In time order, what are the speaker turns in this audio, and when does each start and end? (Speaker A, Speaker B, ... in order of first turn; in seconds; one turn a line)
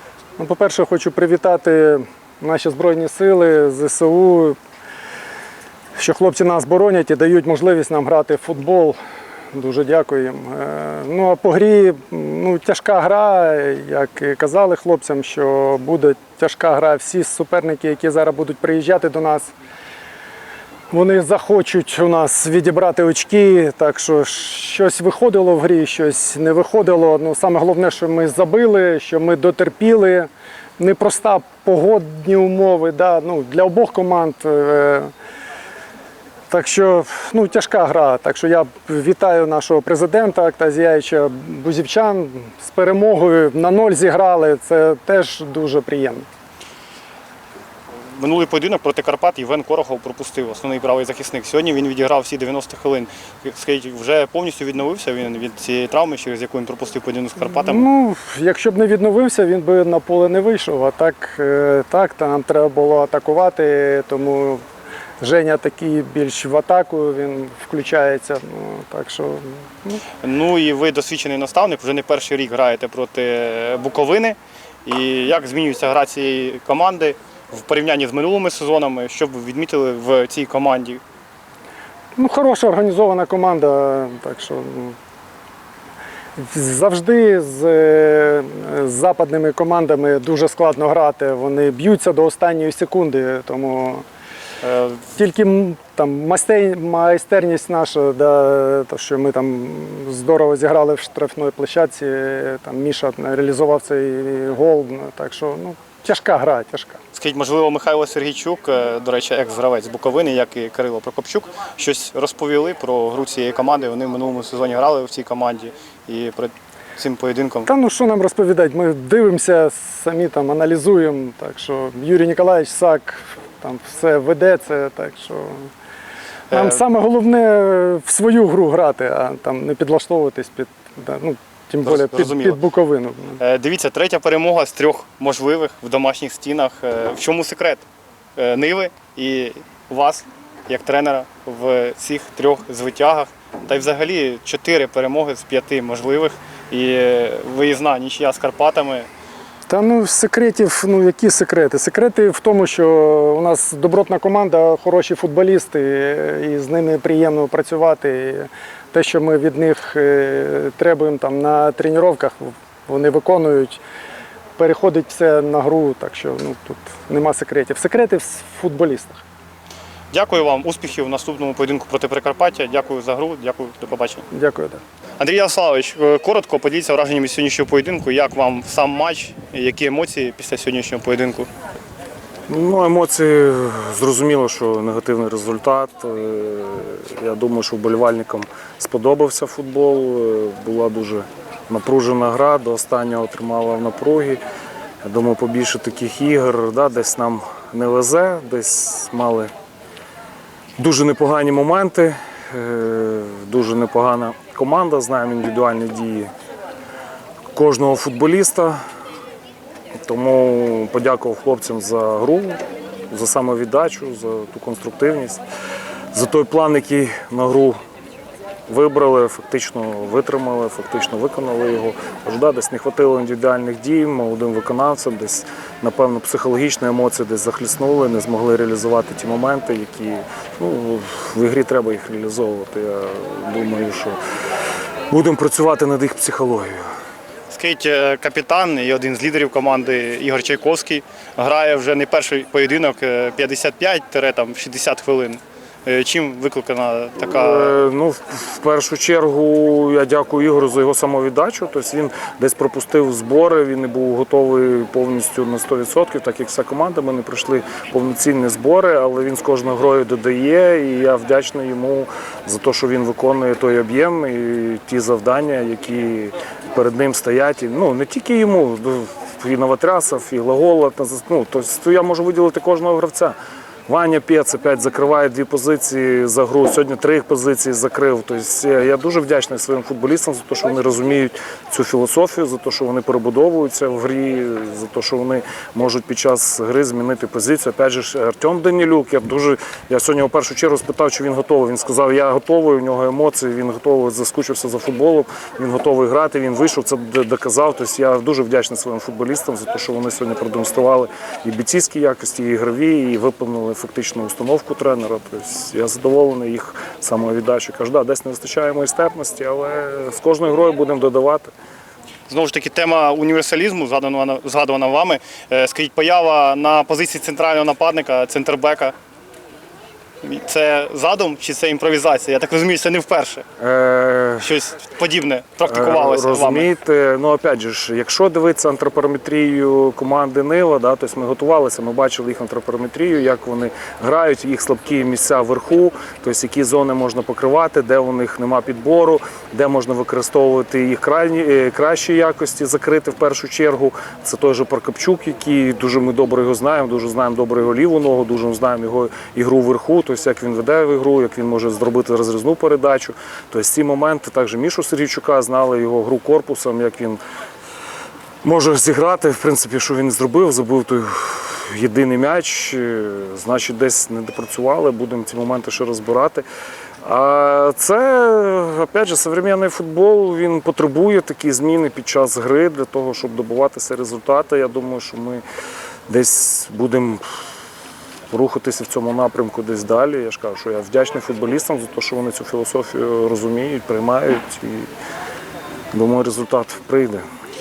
Speaker A: 0.4-4.6
Speaker A: 6.0-9.0
Speaker A: 9.5-19.5
Speaker A: 20.9-35.1
Speaker A: 36.5-46.3
Speaker B: 48.1-57.9
Speaker A: 57.5-64.6
Speaker A: 65.2-70.0
Speaker B: 70.2-81.0
Speaker A: 82.2-85.0
Speaker A: 86.4-94.0
Speaker B: 94.6-95.0
Speaker A: 95.1-107.0
Speaker B: 107.1-117.7
Speaker A: 117.6-125.7
Speaker B: 126.5-126.8
Speaker A: 126.5-133.4
Speaker B: 131.8-132.6
Speaker B: 133.4-137.8
Speaker B: 138.4-149.1
Speaker A: 149.7-163.8
Speaker A: 164.6-169.2
Speaker B: 170.1-174.2
Speaker A: 174.3-174.8
Speaker B: 175.2-181.5
Speaker C: 182.5-194.4
Speaker C: 195.0-199.5
Speaker C: 200.8-206.3
Speaker C: 207.5-208.8
Speaker C: 210.0-215.4
Speaker C: 216.1-217.8
Speaker C: 218.7-234.2
Speaker C: 235.1-236.8
Speaker B: 237.5-247.8
Speaker C: 247.3-273.3
Speaker C: 273.9-311.5
Speaker B: 312.3-318.9
Speaker B: 320.2-323.5
Speaker C: 323.6-324.6
Speaker B: 324.4-326.7
Speaker C: 325.6-357.2
Speaker C: 358.4-366.4
Speaker C: 367.0-375.4
Speaker C: 376.1-377.2
Speaker C: 378.3-384.9
Speaker C: 385.9-387.2